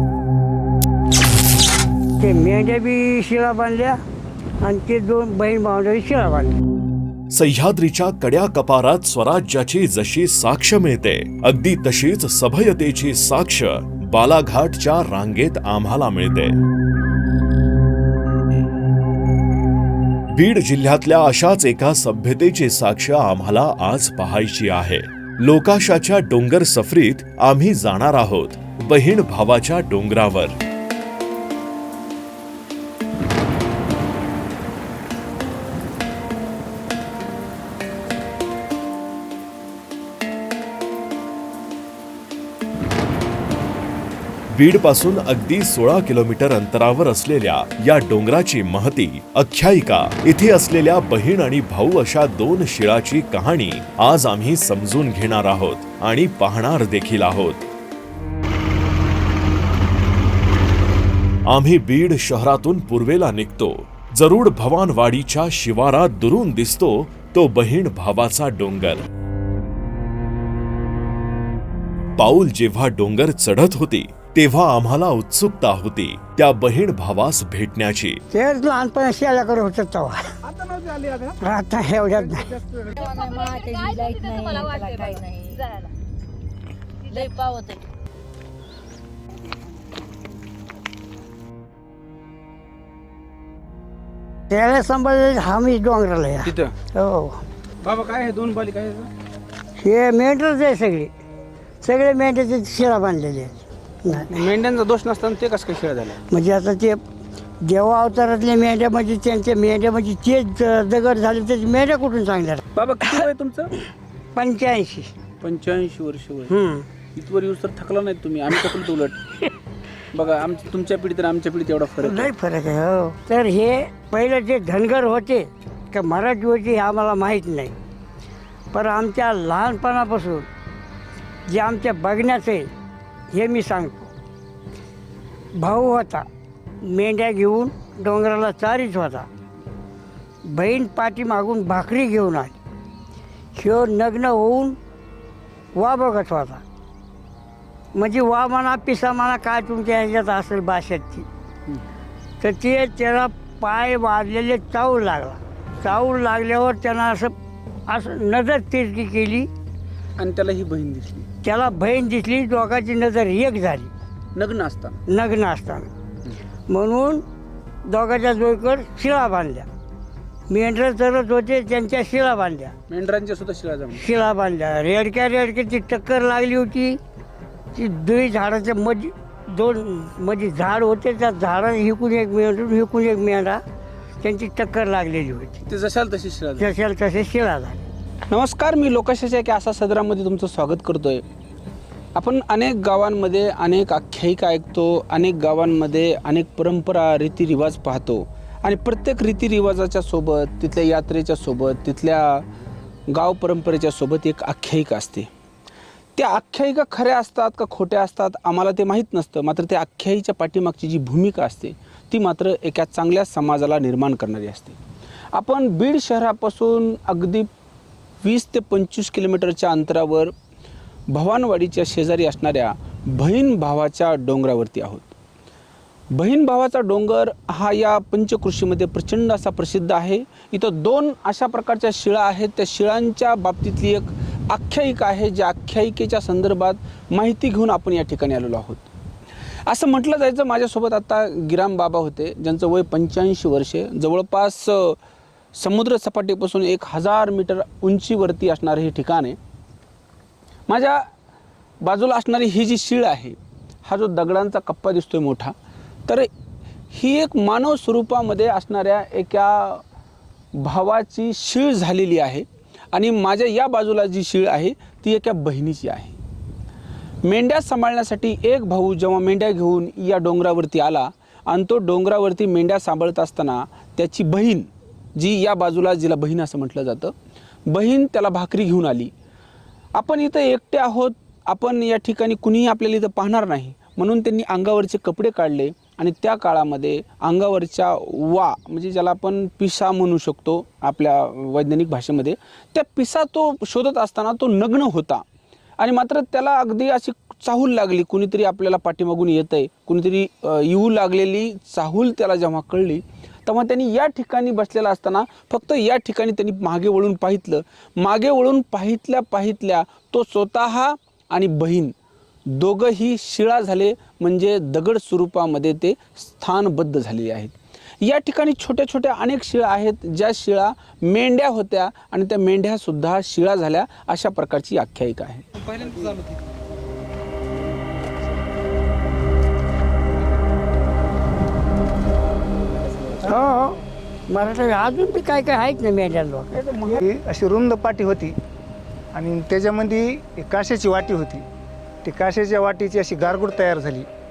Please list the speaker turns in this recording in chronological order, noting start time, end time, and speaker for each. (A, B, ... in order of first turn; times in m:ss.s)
0:02.2-0:04.0 A
0:04.6-0:06.6 A
0:07.3-0:16.6 B
0:20.3-0:30.6 B
0:44.5-0:57.7 B
1:01.5-1:09.0 B
1:12.2-1:18.2 B
1:18.3-1:20.3 A
1:20.5-1:21.4 C
1:21.4-1:22.6 A
1:23.0-1:25.9 D
1:27.0-1:27.8 D
1:34.5-1:37.4 A
1:36.4-1:36.7 C
1:37.8-1:39.1 C
1:39.8-1:41.1 A
1:41.8-1:44.5 A
1:44.1-1:46.2 C
1:46.3-1:47.0 A
1:47.6-1:52.6 A
1:52.8-1:53.7 C
1:54.4-1:55.1 A
1:55.4-1:56.5 C
1:56.5-1:56.9 A
1:57.2-1:59.2 C
2:00.1-2:02.3 C
2:02.0-2:07.8 A
2:08.7-2:10.5 A
2:11.5-2:12.7 A
2:13.3-2:14.1 A
2:15.6-2:16.3 A
2:16.8-2:19.3 A
2:20.5-2:22.6 A
2:23.6-2:24.8 A
2:25.8-2:26.6 A
2:28.0-2:31.3 A
2:32.4-2:37.4 A
2:37.9-2:39.5 A
2:40.2-2:41.3 C
2:41.4-2:43.9 A
2:44.4-2:45.0 C
2:45.1-2:45.9 A
2:46.7-2:47.2 A
2:47.9-2:49.7 A
2:50.5-2:52.8 A
2:52.9-2:54.0 C
2:53.9-2:57.0 A
2:57.7-3:03.6 A
3:04.2-3:05.6 A
3:05.7-3:06.7 C
3:06.6-3:07.8 A
3:08.3-3:11.2 C
3:12.2-3:22.4 C
3:23.1-3:25.3 C
3:26.2-3:34.8 C
3:35.3-3:37.5 C
3:38.2-3:40.3 C
3:41.1-3:45.2 C
3:46.1-3:58.9 C
3:59.7-4:05.0 C
4:05.6-4:09.4 C
4:10.7-4:11.0 C
4:11.8-4:15.5 C
4:16.9-4:19.8 C
4:20.6-4:26.2 C
4:27.2-4:37.1 C
4:37.7-4:39.1 C
4:40.0-4:55.2 C
4:55.8-5:11.9 C
5:12.5-5:26.1 C
5:33.2-5:36.6 A
5:36.5-5:37.0 C
5:36.9-5:38.4 E
5:39.1-5:41.5 E
5:42.0-5:44.1 E